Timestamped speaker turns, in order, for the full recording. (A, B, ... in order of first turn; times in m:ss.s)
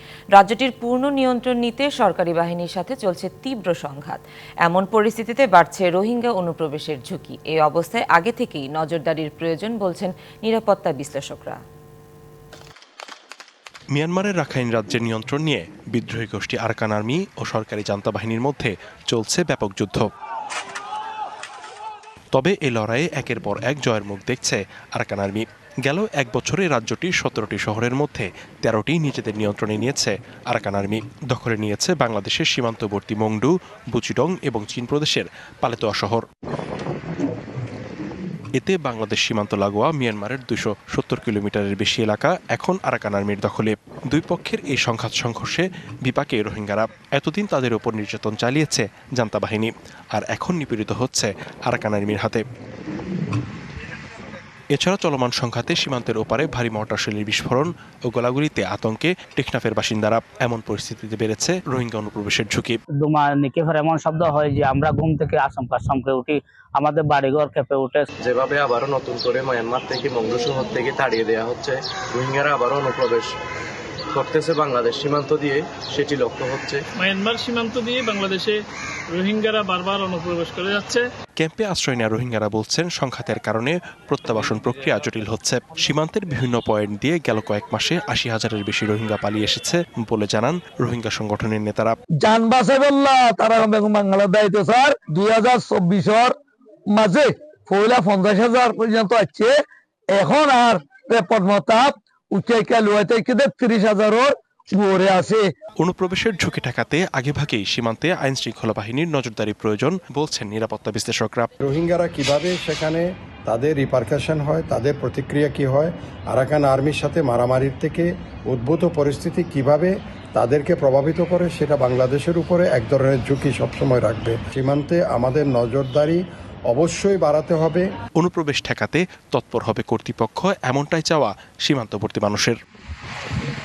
0:00.3-0:11.6 A
0:13.9-0:20.1 B
0:22.3-0:36.2 B
0:38.6-0:52.4 B
0:54.7-1:02.8 B
1:03.0-1:08.1 C
1:08.2-1:13.3 D
1:14.1-1:16.8 D
1:17.0-1:18.6 E
1:19.1-1:21.0 E
1:21.4-1:31.9 B
1:32.2-1:36.3 F
1:36.9-1:39.6 F
1:40.1-1:45.5 F
1:45.8-1:51.5 B
1:51.6-2:07.8 G
2:08.2-2:12.5 B